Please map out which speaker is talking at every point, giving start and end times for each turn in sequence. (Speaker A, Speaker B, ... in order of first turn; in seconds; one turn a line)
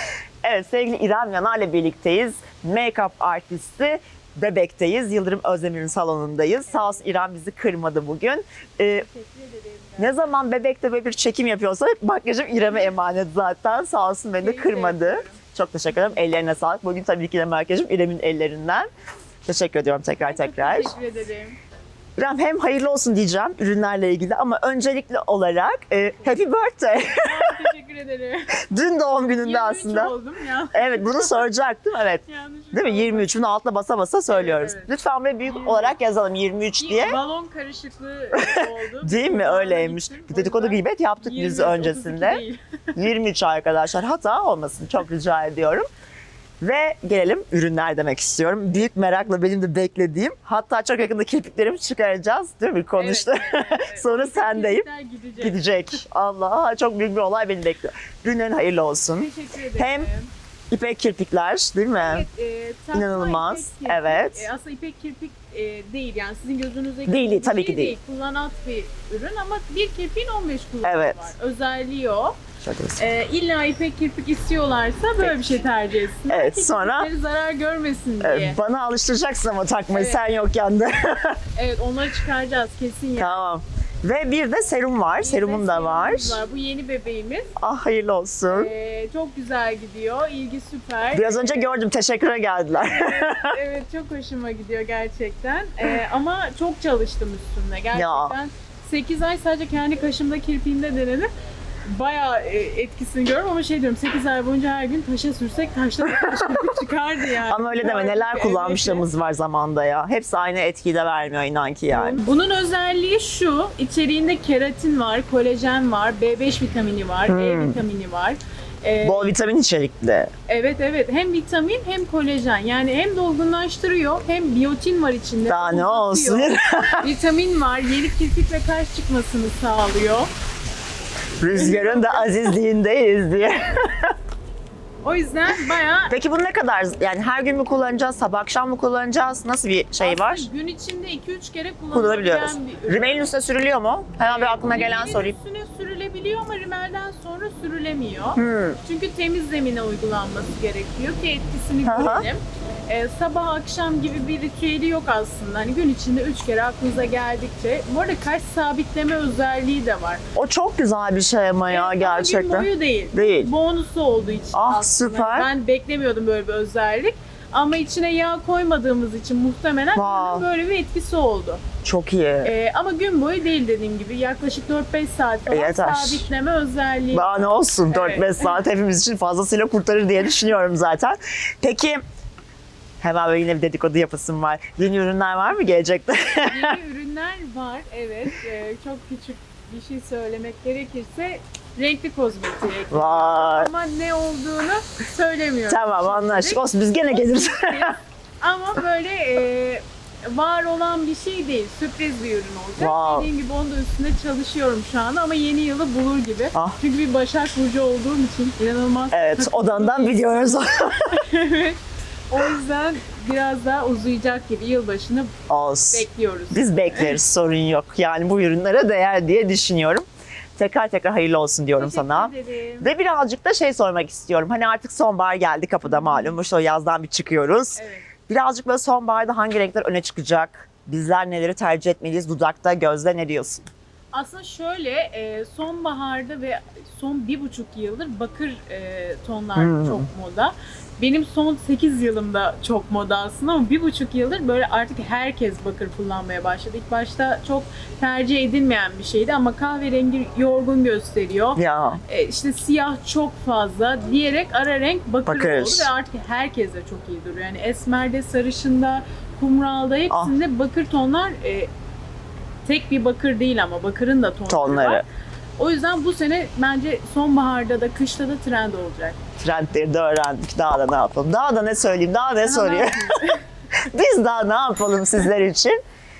Speaker A: 0.4-9.1
Speaker B: 6.7-7.1
Speaker B: 8.9-10.2
Speaker A: 10.0-18.9
Speaker B: 14.4-16.2
Speaker A: 19.5-20.9
Speaker B: 20.2-21.6
Speaker A: 22.2-27.6
Speaker B: 27.2-28.5
Speaker A: 28.7-30.1
Speaker B: 29.4-31.5
Speaker A: 30.7-37.2
Speaker B: 32.3-33.3
Speaker B: 34.3-34.9
Speaker B: 35.4-36.0
Speaker B: 36.8-42.6
Speaker A: 38.4-42.4
Speaker A: 43.0-45.9
Speaker A: 46.6-54.9
Speaker B: 53.0-55.6
Speaker A: 55.4-60.1
Speaker B: 59.1-60.3
Speaker A: 60.7-62.3
Speaker B: 62.0-72.4
Speaker A: 62.9-64.5
Speaker A: 67.1-68.0
Speaker A: 70.8-71.3
Speaker A: 72.6-73.1
Speaker B: 73.0-78.6
Speaker A: 76.3-77.1
Speaker A: 78.2-81.4
Speaker B: 79.9-80.2
Speaker B: 81.5-83.4
Speaker A: 83.2-86.4
Speaker B: 85.2-87.5
Speaker A: 87.6-88.7
Speaker B: 88.5-91.8
Speaker A: 91.1-93.6
Speaker B: 92.8-101.3
Speaker A: 97.9-98.3
Speaker B: 101.9-109.1
Speaker A: 106.1-106.7
Speaker A: 107.4-112.2
Speaker B: 111.9-119.3
Speaker A: 117.3-117.8
Speaker A: 119.0-120.3
Speaker B: 120.5-130.3
Speaker A: 125.5-127.1
Speaker A: 131.4-134.1
Speaker B: 131.5-132.6
Speaker B: 135.0-136.2
Speaker A: 136.1-140.5
Speaker B: 140.0-143.2
Speaker A: 141.9-145.4
Speaker B: 144.2-160.2
Speaker A: 148.4-148.8
Speaker A: 151.8-152.3
Speaker A: 160.3-163.5
Speaker B: 161.7-171.6
Speaker A: 164.5-165.5
Speaker A: 169.9-170.4
Speaker A: 171.8-172.5
Speaker B: 172.4-177.3
Speaker A: 175.5-176.3
Speaker A: 177.1-182.0
Speaker B: 177.9-178.6
Speaker A: 183.0-186.8
Speaker B: 186.4-215.3
Speaker A: 192.9-193.7
Speaker A: 195.7-197.9
Speaker A: 202.8-203.3
Speaker A: 209.1-211.2
Speaker A: 215.5-220.1
Speaker B: 215.9-217.2
Speaker A: 220.6-233.7
Speaker B: 221.8-222.9
Speaker B: 225.8-226.4
Speaker B: 227.8-228.1
Speaker B: 234.1-261.7
Speaker A: 239.6-240.1
Speaker A: 251.6-252.0
Speaker A: 255.3-255.9
Speaker A: 260.1-260.4
Speaker B: 262.6-265.0
Speaker A: 264.5-265.0
Speaker B: 265.6-269.2
Speaker A: 269.4-273.1
Speaker B: 272.4-273.4
Speaker A: 273.9-275.8